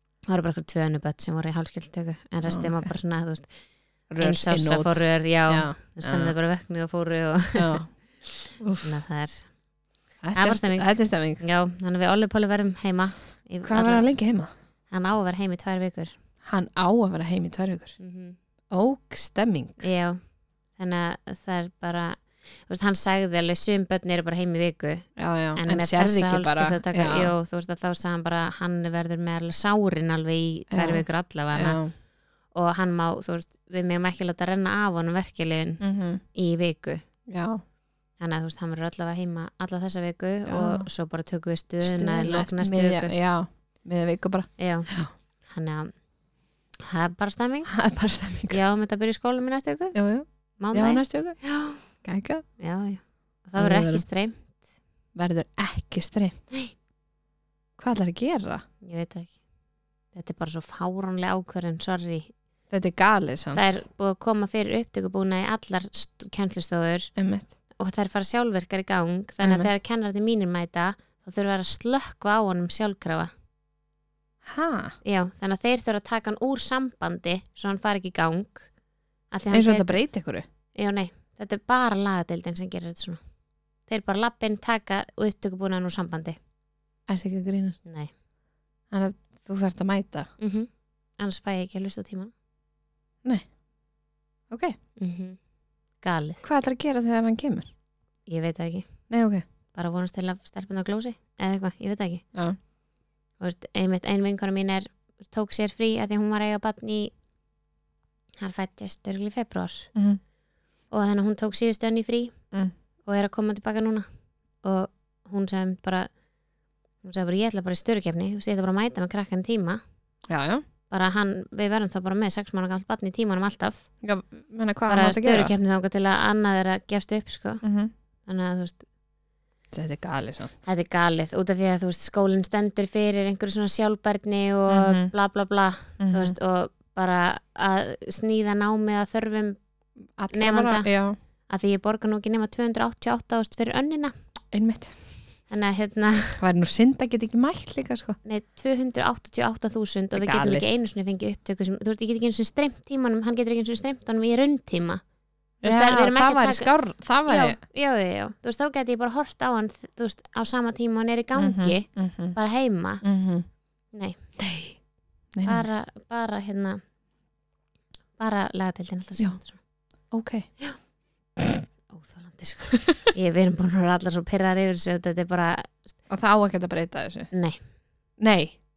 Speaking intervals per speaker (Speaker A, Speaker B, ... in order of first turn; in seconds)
Speaker A: 0.3-16.2, 18.0-18.4, 19.8-37.3, 38.2-43.2, 44.6-54.6, 58.8-62.7, 63.5-73.3, 75.0-86.4, 87.8-88.1, 90.4-92.3, 95.0-96.4, 98.2-102.8, 103.4-107.2, 108.4-110.2, 110.9-120.3, 120.9-124.3, 124.9-128.9, 130.6-144.3, 145.5-146.4, 148.2-164.8, 165.4-166.8, 168.2-170.8, 171.9-176.0, 177.3-178.2
Speaker B: 2.5-2.9, 4.1-6.4, 7.5-8.9, 10.2-11.4, 13.6-14.5, 16.4-18.0, 18.7-19.9, 25.1-27.3, 30.7-31.9, 35.8-36.2, 37.3-37.6, 40.5-40.9, 41.8-45.1, 47.7-48.6, 49.9-53.0, 53.5-54.4, 55.1-56.4, 57.8-58.6, 62.7-63.8, 67.2-67.5, 69.4-69.7, 74.4-75.0, 79.5-80.4, 87.1-87.8, 88.9-90.3, 93.2-94.8, 96.4-97.7, 99.1-99.4, 109.9-110.2, 120.3-120.6, 124.0-125.5, 127.6-127.9, 129.7-130.5, 134.7-136.3, 140.2-141.2, 144.5-145.1, 146.4-148.2, 150.1-150.7, 155.6-157.6, 161.4-163.6, 164.4-164.8, 165.3-165.7, 169.2-170.6, 176.1-177.3, 178.2-178.5